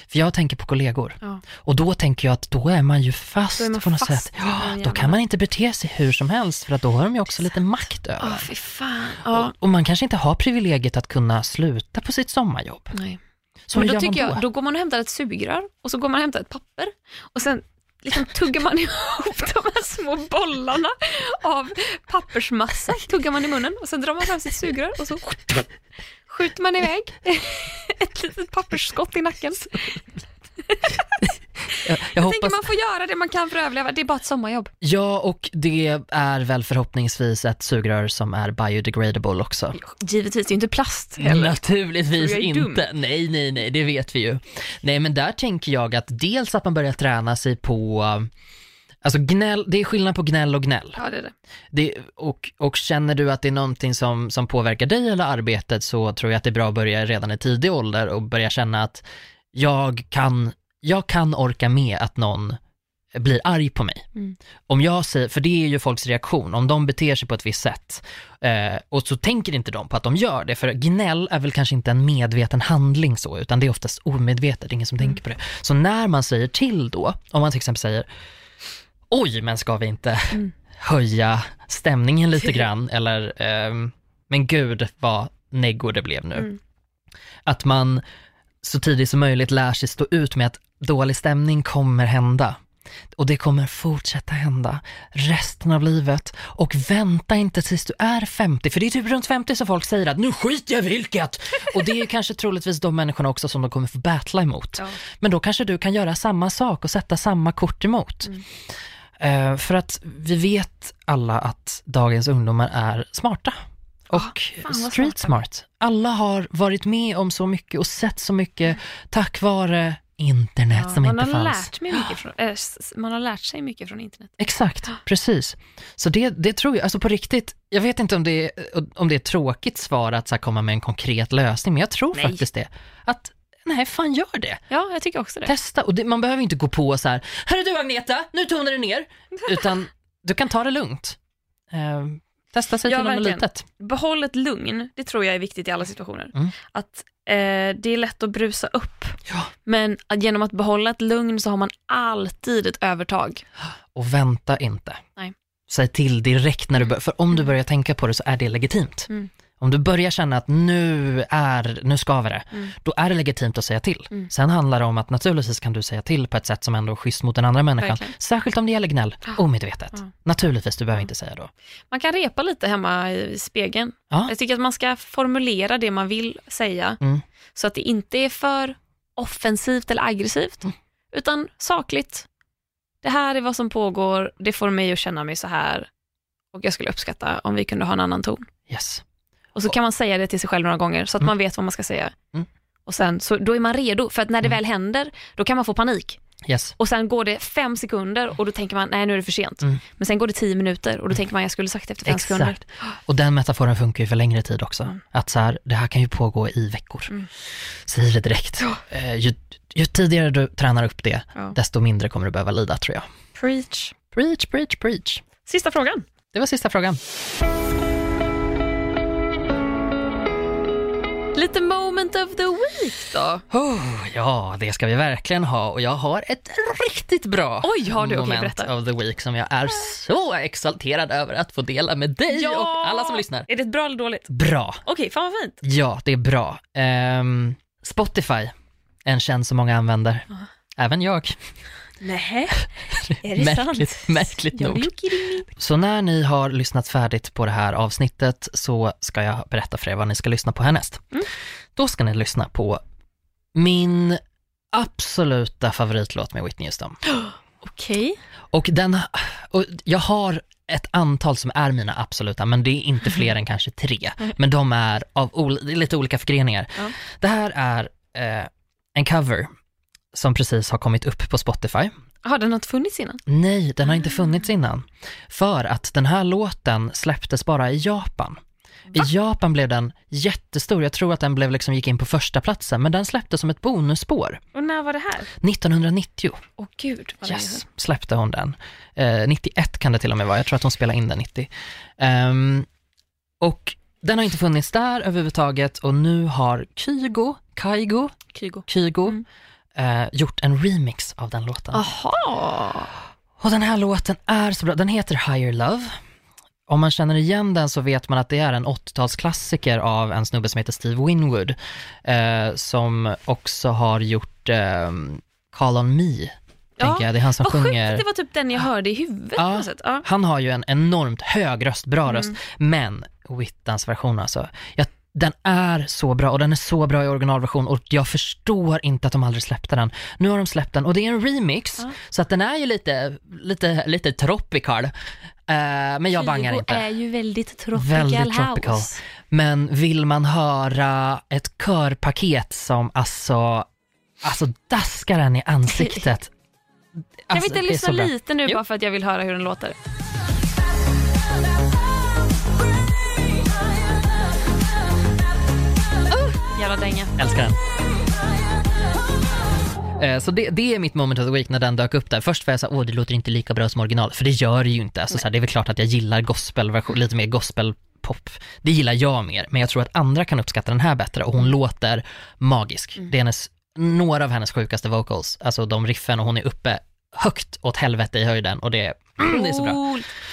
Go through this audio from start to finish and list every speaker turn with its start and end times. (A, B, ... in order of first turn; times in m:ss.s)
0:00.1-0:08.5 A
0:03.6-0:05.2 B
0:08.2-0:09.5 B
0:09.2-0:13.0 A
0:12.9-0:13.2 B
0:13.7-0:14.4 A
0:13.7-0:25.6 B
0:26.3-0:30.0 B
0:30.6-0:31.2 B
0:31.8-0:32.6 A
0:32.1-0:34.7 B
0:34.8-0:39.8 A
0:39.7-0:41.6 B
0:41.2-0:48.3 A
0:42.1-0:42.8 B
0:49.0-0:51.0 A
0:51.0-0:51.3 B
0:51.7-0:59.0 A
0:59.5-1:02.6 A
1:03.1-1:04.1 A
1:04.7-1:18.1 A
1:19.1-1:26.5 A
1:27.4-1:28.0 A
1:28.6-1:32.6 A
1:33.1-1:48.4 A
1:49.2-1:53.6 A
1:54.1-2:01.7 A
1:54.1-1:55.4 B
2:00.7-2:04.4 B
2:04.4-2:14.6 A
2:12.1-2:12.4 B
2:14.7-2:15.5 B
2:15.4-2:21.2 A
2:21.7-2:23.6 A
2:22.8-2:33.4 B
2:33.9-2:35.0 A
2:35.7-2:39.1 A
2:39.6-2:51.5 A
2:47.8-2:48.1 B
2:51.9-2:57.0 B
2:57.5-3:02.3 B
3:03.0-3:05.9 B
3:06.5-3:08.5 B
3:08.7-3:09.0 A
3:09.6-3:12.1 B
3:12.8-3:16.2 B
3:16.4-3:16.7 A
3:16.8-3:22.6 B
3:22.0-3:27.1 A
3:27.8-3:33.0 A
3:33.4-3:33.9 B
3:34.1-3:35.2 A
3:35.4-3:36.1 B
3:36.3-3:37.0 A
3:41.3-3:43.4 B
3:43.5-3:53.5 A
3:47.6-3:48.7 B
3:52.3-3:54.3 B
3:54.3-3:54.8 A
3:54.8-3:55.6 B
3:55.6-3:58.5 A
3:59.0-4:01.4 A
4:02.0-4:02.6 B
4:03.0-4:04.9 A
4:03.2-4:05.5 B
4:05.5-4:11.0 A
4:11.8-4:12.8 A
4:13.5-4:14.2 A
4:14.7-4:17.0 A
4:17.0-4:18.2 B
4:18.5-4:29.5 A
4:30.1-4:31.9 A
4:32.2-4:33.2 B
4:33.2-4:38.4 A
4:38.9-4:44.4 A
4:44.5-4:45.3 B
4:45.4-4:46.4 A
4:46.6-4:47.6 B
4:47.2-4:52.7 A
4:53.4-4:59.2 A
4:58.3-4:59.2 B
4:59.8-5:01.8 A
5:01.7-5:02.9 B
5:03.4-5:06.0 A
5:06.7-5:18.0 A
5:16.8-5:20.0 B
5:19.4-5:34.9 A
5:22.1-5:22.3 B
5:35.5-5:36.9 A
5:36.2-5:39.0 B
5:37.7-5:43.7 A
5:44.2-5:46.3 A
5:45.7-5:46.0 B
5:47.3-5:48.6 A
5:47.3-5:49.8 B
5:56.1-5:57.2 B
5:57.2-5:57.6 A
6:00.0-6:19.9 A
6:19.2-6:20.1 B